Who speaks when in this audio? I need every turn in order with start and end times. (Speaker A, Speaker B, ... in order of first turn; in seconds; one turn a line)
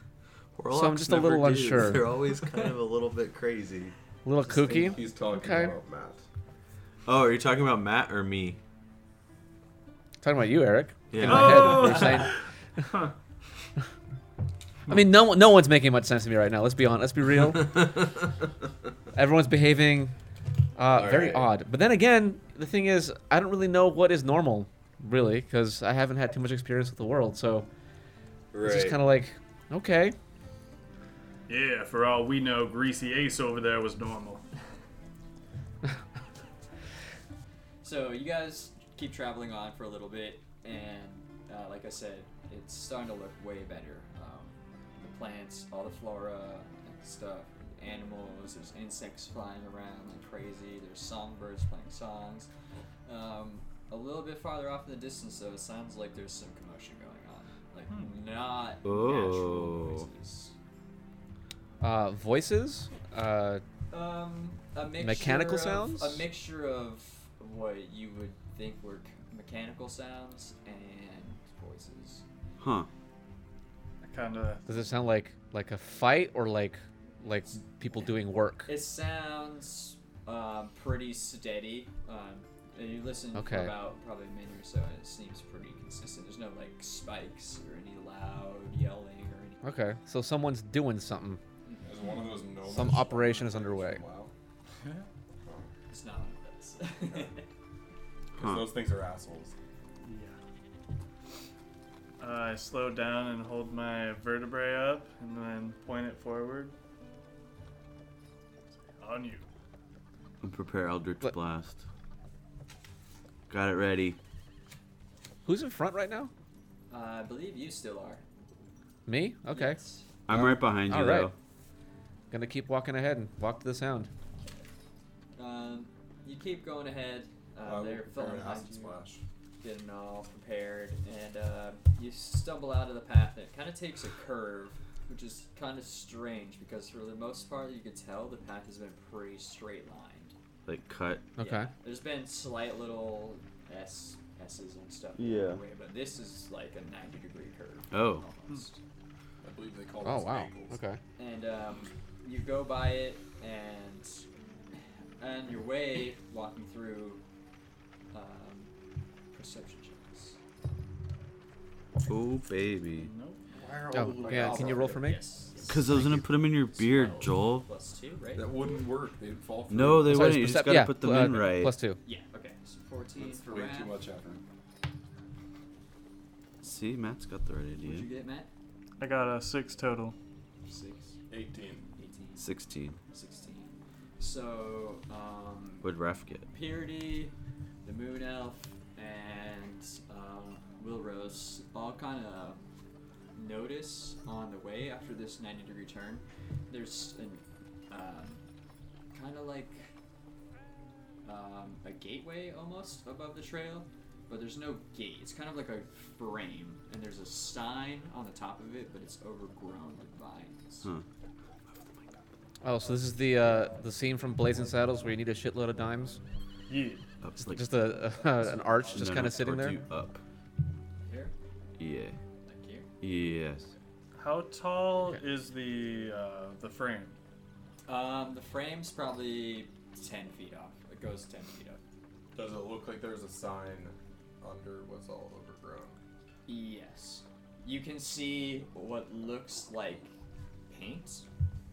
Speaker A: 0.5-3.9
Speaker B: 0.7-2.1
Speaker B: 4.2-5.7
Speaker C: 4.5-6.2
Speaker D: 4.6-4.9
Speaker A: 7.0-8.6
Speaker B: 10.2-12.4
Speaker A: 11.1-12.1
Speaker E: 11.2-13.1
Speaker B: 14.9-17.8
Speaker A: 17.6-18.1
Speaker B: 19.1-20.1
Speaker B: 20.8-27.7
Speaker A: 20.9-21.5
Speaker A: 28.5-29.0
Speaker B: 28.6-30.1
Speaker E: 31.5-34.4
Speaker D: 37.8-52.5
Speaker D: 53.0-60.5
Speaker E: 57.9-58.1
Speaker A: 58.8-60.1
Speaker B: 61.8-63.6
Speaker D: 63.9-72.2
Speaker B: 65.0-66.2
Speaker A: 72.6-72.9
Speaker E: 74.0-74.8
Speaker B: 74.7-78.7
Speaker D: 78.7-89.8
Speaker B: 83.3-83.7
Speaker B: 89.6-91.4
Speaker D: 91.6-91.9
Speaker C: 91.8-94.3
Speaker B: 92.7-94.0
Speaker E: 94.8-95.1
Speaker D: 95.9-97.5
Speaker C: 98.3-99.5
Speaker E: 100.0-100.4
Speaker E: 102.2-106.7
Speaker E: 109.0-109.5
Speaker A: 110.4-111.8
Speaker A: 113.5-114.2
Speaker B: 115.4-116.3
Speaker D: 116.9-118.2
Speaker B: 119.0-119.8
Speaker D: 119.5-120.1
Speaker A: 120.3-121.3
Speaker B: 120.8-121.3
Speaker B: 122.3-124.1
Speaker D: 125.3-129.0
Speaker C: 127.6-129.2
Speaker D: 129.6-140.3
Speaker A: 140.7-141.2
Speaker B: 141.4-141.7
Speaker D: 141.4-148.8
Speaker A: 145.2-145.6
Speaker A: 147.9-148.2
Speaker C: 149.4-150.8
Speaker B: 150.0-151.0
Speaker D: 151.2-154.2
Speaker D: 155.2-157.2
Speaker D: 158.1-158.7
Speaker D: 159.3-160.4
Speaker A: 162.0-163.1
Speaker E: 163.0-163.4
Speaker C: 163.5-165.1
Speaker B: 163.9-165.2
Speaker D: 164.3-168.5
Speaker A: 165.7-167.7
Speaker C: 168.3-170.3
Speaker A: 169.7-171.7
Speaker B: 170.1-172.0
Speaker D: 172.0-174.0
Speaker C: 173.2-174.4
Speaker A: 176.6-178.1
Speaker D: 177.8-178.5
Speaker E: 179.0-180.2
Speaker D: 180.6-181.2
Speaker C: 181.3-181.9
Speaker D: 181.9-182.5
Speaker A: 182.4-183.0
Speaker D: 183.1-185.9
Speaker A: 185.8-186.5
Speaker D: 186.5-192.6
Speaker D: 193.3-198.4
Speaker D: 199.1-199.9
Speaker D: 201.2-210.9
Speaker B: 212.6-216.2
Speaker D: 212.8-213.8
Speaker E: 216.7-217.1
Speaker A: 217.2-217.7
Speaker B: 217.4-219.8
Speaker D: 218.0-219.3
Speaker A: 218.9-220.2
Speaker D: 221.0-221.3
Speaker A: 221.8-222.2
Speaker D: 222.4-222.9
Speaker A: 223.0-223.7
Speaker E: 224.2-227.2
Speaker D: 227.9-231.8
Speaker C: 232.3-236.0
Speaker D: 236.5-240.1
Speaker D: 240.7-241.2